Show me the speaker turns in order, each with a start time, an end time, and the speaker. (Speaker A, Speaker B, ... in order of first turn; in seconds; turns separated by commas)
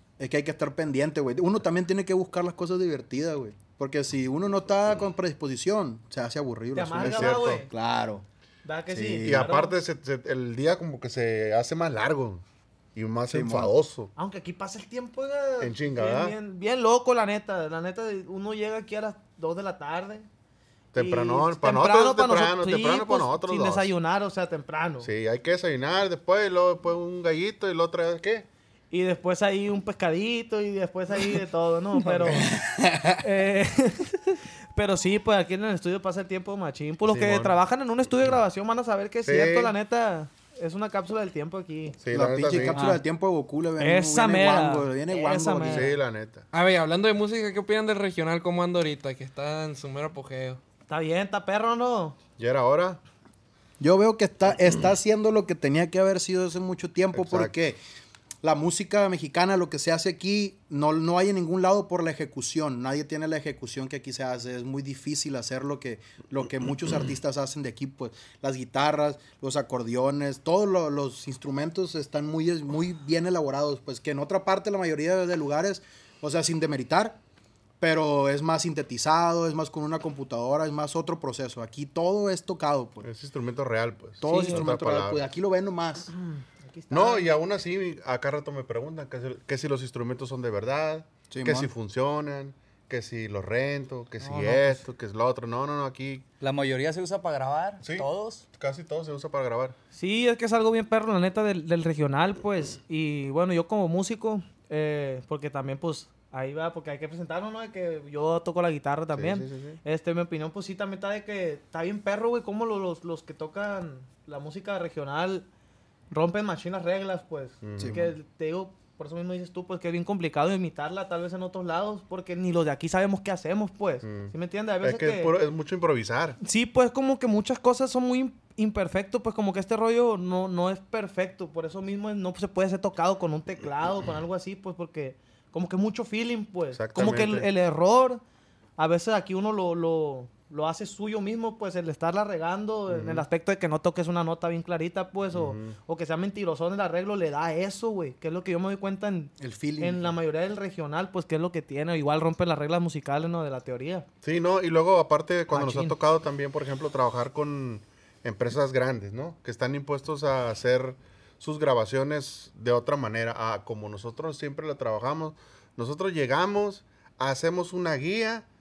Speaker A: 0.2-8.2, Speaker B: 6.7-7.7, Speaker C: 7.0-7.6, Speaker B: 8.6-9.8, Speaker A: 8.9-9.5, Speaker C: 9.2-12.4, Speaker C: 12.9-14.1, Speaker A: 13.3-13.7, Speaker B: 14.2-20.3, Speaker C: 15.6-16.4, Speaker C: 20.9-23.9, Speaker B: 20.9-25.1, Speaker C: 25.0-28.5, Speaker B: 28.9-32.5, Speaker D: 32.2-33.1, Speaker B: 33.2-42.0, Speaker C: 37.1-37.6, Speaker C: 39.2-39.7, Speaker C: 42.0-42.8, Speaker A: 42.1-45.9, Speaker D: 42.7-43.0, Speaker B: 43.8-45.9, Speaker C: 45.7-46.5, Speaker E: 46.5-50.6, Speaker B: 50.9-52.2, Speaker C: 52.4-53.0, Speaker A: 53.8-57.8, Speaker C: 57.1-57.5, Speaker A: 58.4-77.2, Speaker A: 77.8-83.1, Speaker C: 83.0-85.2, Speaker A: 84.2-86.1, Speaker B: 84.3-84.7, Speaker B: 86.1-87.4, Speaker C: 86.9-96.2, Speaker A: 91.3-91.7, Speaker B: 94.2-94.9, Speaker D: 96.4-98.5, Speaker C: 97.8-99.8, Speaker B: 99.9-115.5, Speaker C: 109.1-109.8, Speaker B: 116.1-125.3, Speaker C: 117.6-118.1, Speaker C: 124.0-126.4, Speaker B: 126.4-138.2, Speaker C: 136.7-137.5, Speaker B: 138.8-154.1, Speaker C: 142.9-143.2, Speaker C: 145.3-145.8, Speaker A: 149.4-150.1, Speaker C: 154.2-168.5, Speaker B: 155.5-156.0